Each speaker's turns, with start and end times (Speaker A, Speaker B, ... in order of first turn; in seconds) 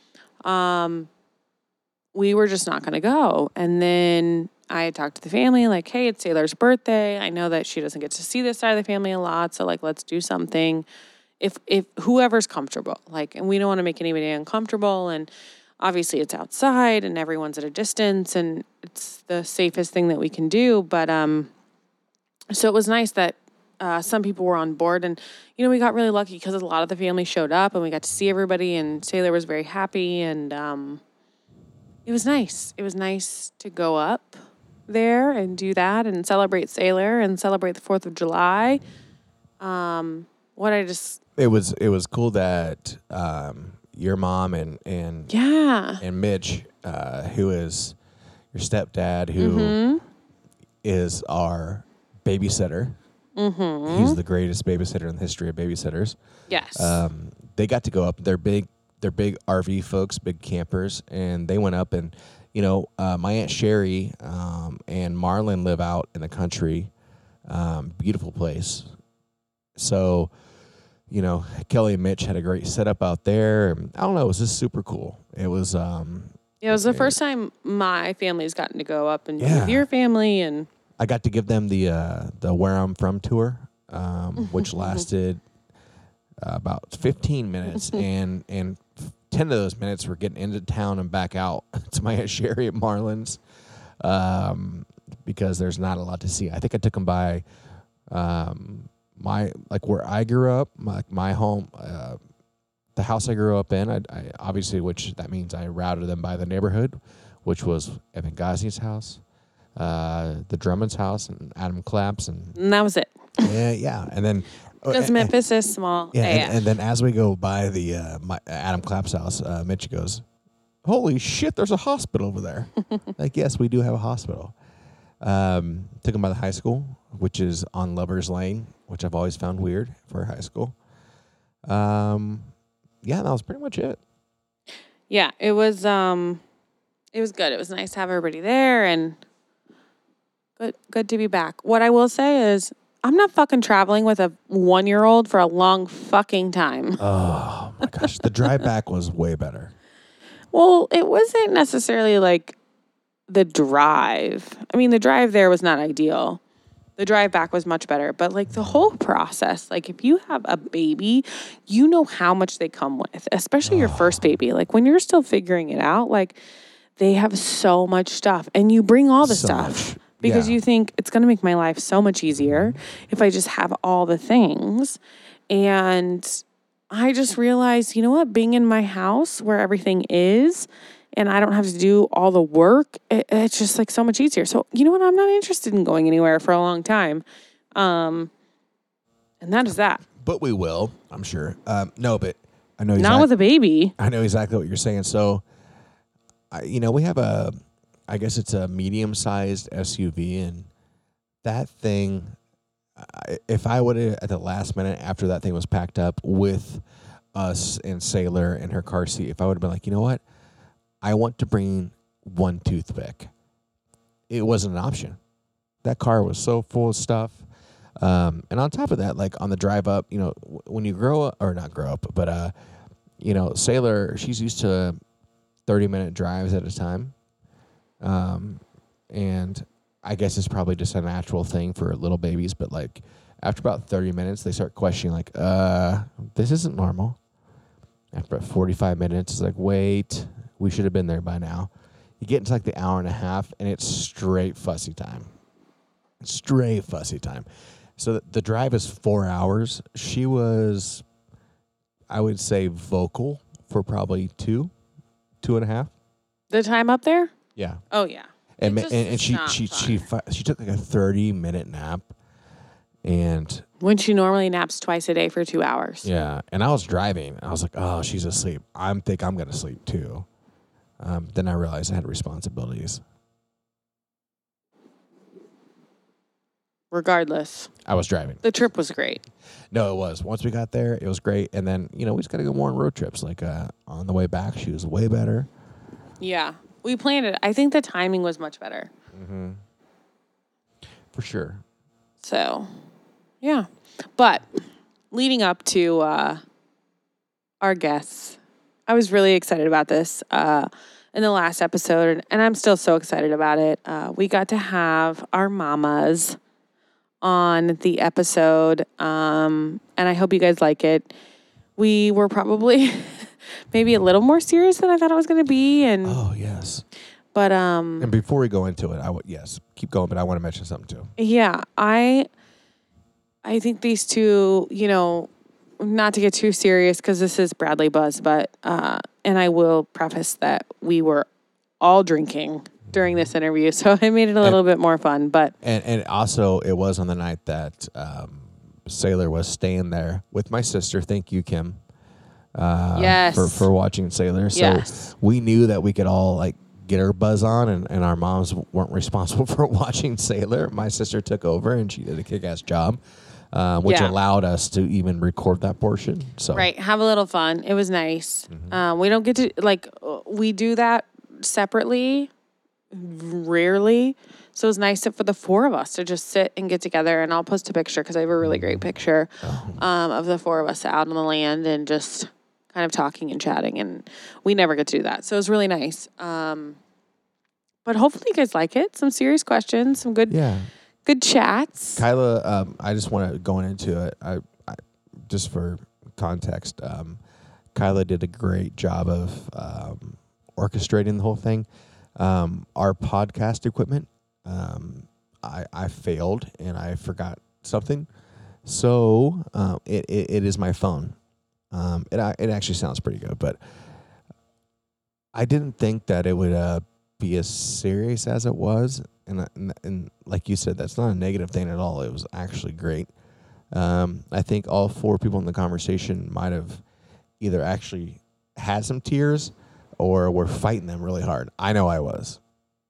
Speaker A: 0.4-1.1, 2.1-10.8, 11.4-15.3, 15.8-21.5, 22.5-31.0, 32.0-38.8, 39.6-41.2, 45.3-46.0, 49.4-50.0, 53.4-54.2, 56.5-57.0, 76.6-80.7, 112.5-113.5, 114.9-116.6, 135.1-136.4, 137.1-139.2, 140.6-147.0, 150.5-152.6, 153.3-156.4, 157.0-166.4, 167.0-175.0, 175.5-187.2, 187.7-188.3, 189.4-190.0, 193.0-193.9, 256.5-257.3, 257.9-260.0, 263.8-266.1, 276.9-277.7, 278.4-279.2, 286.2-288.9, 292.2-292.7, 293.4-294.5, 295.1-296.4, 297.6-306.4, 307.2-311.1, 311.8-316.2, 317.3-318.1, 321.2-322.3, 323.4-331.3, 331.8-335.5, 342.9-343.7, 344.5-345.1, 353.8-354.1, 356.5-362.3, 362.9-376.8, 377.8-380.4, 381.0-382.0
Speaker B: 41.4-45.3, 46.0-48.0, 48.5-49.8, 50.8-53.0, 53.9-56.2, 56.7-66.9, 67.5-68.9, 69.8-70.3, 71.1-77.2, 79.4-79.9, 81.0-85.4, 86.4-93.4, 94.0-97.5, 98.1-102.2, 103.0-109.2, 109.8-112.6, 113.4-115.3, 116.1-120.2, 120.8-124.5, 125.2-130.8, 131.7-134.0, 147.0-149.7, 158.5-158.8, 163.6-164.4, 169.2-170.6, 172.4-172.8, 190.2-193.3, 194.0-195.4, 196.5-197.6, 198.1-200.7, 201.4-202.3, 203.0-206.8, 207.3-210.2, 211.0-213.3, 214.3-215.2, 215.8-217.4, 218.0-222.5, 223.2-225.0, 225.7-227.1, 228.0-237.2, 238.1-245.3, 246.2-251.0, 252.1-254.7, 255.4-255.9, 257.6-257.8, 258.6-262.1, 263.0-263.6, 266.0-270.2, 271.0-273.0, 277.8-278.4, 279.7-285.5, 289.1-289.6, 291.1-291.6, 316.0-316.8, 318.0-321.1, 335.6-341.8, 342.5-353.0, 353.5-356.7, 358.5-358.8, 368.4-368.8, 369.4-369.8, 380.3-380.7, 381.9-387.2, 387.7-398.1, 398.6-401.2, 401.7-403.6, 405.3-413.1, 413.7-416.8, 417.4-422.4